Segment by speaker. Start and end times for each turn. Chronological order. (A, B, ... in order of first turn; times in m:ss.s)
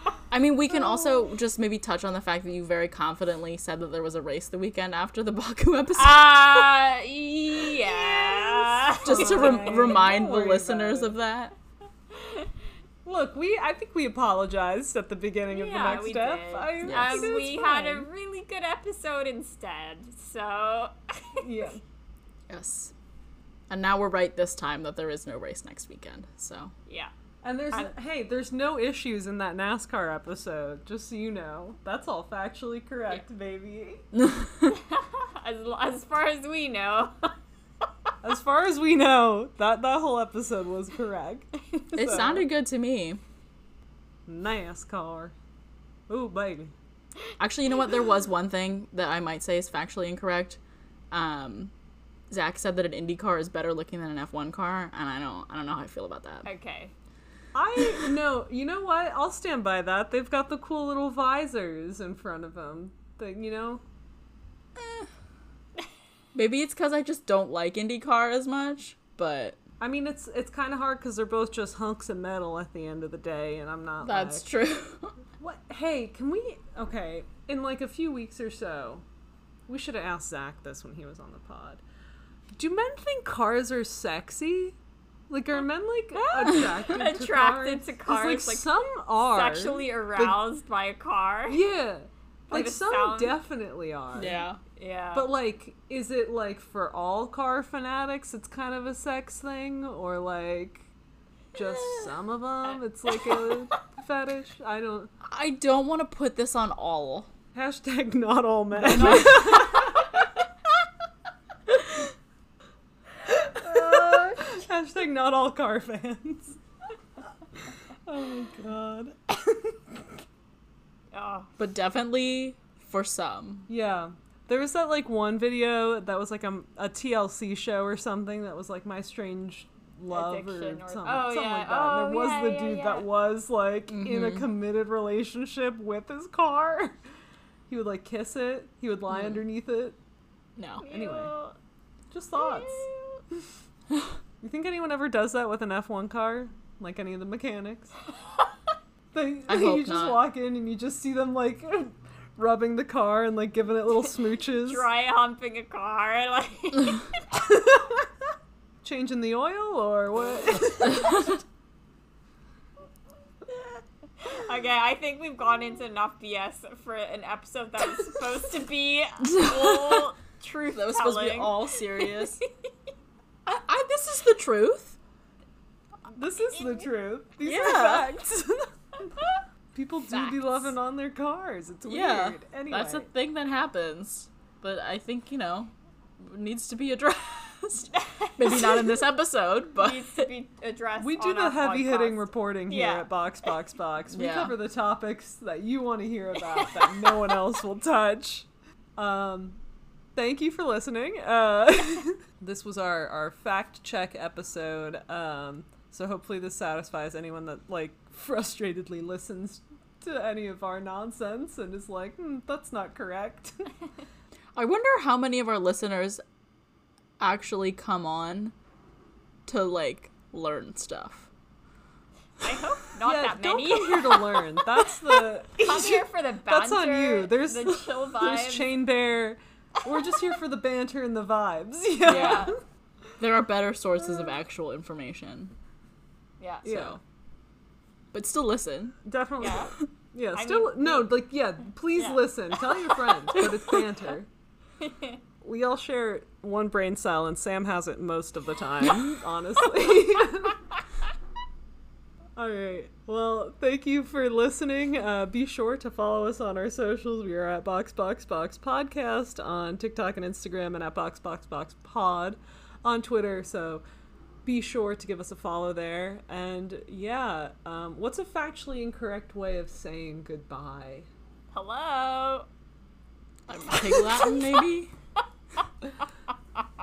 0:00.3-0:06.7 A
0:06.0-0:09.9 B
0:08.2-0:11.1 C
0:09.0-0:11.5 A
0:12.1-0:12.5 B
0:13.0-0:18.1 C
0:15.5-0:21.4 B
0:16.8-0:17.3 A
0:21.4-0:21.8 C
0:22.5-0:22.9 A
0:23.7-0:26.7 A
0:26.9-0:27.1 B
0:27.4-0:34.0 C
0:34.1-0:34.8 A
0:34.7-0:37.3 B
0:38.2-0:42.4 C
0:41.9-0:43.2 A
0:44.3-0:45.3 C
0:46.1-0:46.7 C
0:47.4-0:50.6 A
0:51.1-0:51.7 A
0:52.3-0:56.4 A
0:56.4-0:56.9 B
0:57.5-1:03.8 C
1:04.8-1:05.1 A
1:06.3-1:09.6 A
1:09.8-1:14.4 C
1:14.0-1:15.2 A
1:15.4-1:19.0 C
1:19.7-1:21.8 C
1:22.6-1:24.8 C
1:25.3-1:30.4 C
1:26.1-1:31.6 B
1:31.5-1:34.4 C
1:32.5-1:33.3 B
1:34.1-1:34.6 A
1:34.7-1:35.3 B
1:35.1-1:40.8 C
1:41.5-1:45.1 C
1:41.6-1:42.1 A
1:45.2-1:47.3 A
1:47.5-1:50.1 C
1:48.9-1:49.9 A
1:49.0-1:49.8 B
1:53.5-1:56.6 C
1:53.5-1:54.6 B
1:57.6-2:00.0 C
2:01.1-2:01.5 B
2:01.6-2:03.7 A
2:03.7-2:17.0 C
2:10.1-2:13.0 B
2:13.9-2:14.5 A
2:17.7-2:20.0 C
2:19.1-2:19.4 A
2:20.6-2:20.8 A
2:20.8-2:21.6 B
2:20.9-2:21.3 C
2:22.1-2:22.9 C
2:22.3-2:23.2 B
2:24.4-2:28.0 C
2:29.1-2:34.8 C
2:29.5-2:30.2 A
2:34.6-2:37.1 B
2:37.3-2:38.0 C
2:38.8-2:41.3 C
2:44.2-2:52.2 B
2:49.3-2:50.0 A
2:50.7-2:52.4 A
2:53.4-2:55.0 A
2:56.1-2:58.7 C
2:57.4-2:58.2 A
2:59.7-3:03.1 C
3:00.1-3:00.5 A
3:01.9-3:10.2 A
3:08.0-3:09.0 B
3:09.8-3:13.1 B
3:11.0-3:19.6 C
3:14.1-3:14.6 A
3:16.5-3:17.1 B
3:20.2-3:33.7 C
3:34.6-3:36.2 A
3:37.2-3:38.5 A
3:39.4-3:41.3 A
3:42.4-3:44.4 B
3:43.0-3:52.6 C
3:45.5-3:48.7 B
3:52.0-3:52.5 B
3:52.0-3:52.5 A
3:53.2-3:55.5 A
3:56.4-3:56.6 B
3:56.6-3:57.0 A
3:56.6-3:57.0 C
3:58.1-3:59.0 A
3:59.0-4:04.3 C
3:59.4-3:59.7 B
4:00.3-4:01.1 B
4:01.9-4:02.2 B
4:04.8-4:05.2 B
4:05.4-4:10.6 C
4:12.4-4:23.8 C
4:24.4-4:31.1 C
4:31.5-4:32.5 B
4:33.5-4:34.9 A
4:33.7-4:34.4 B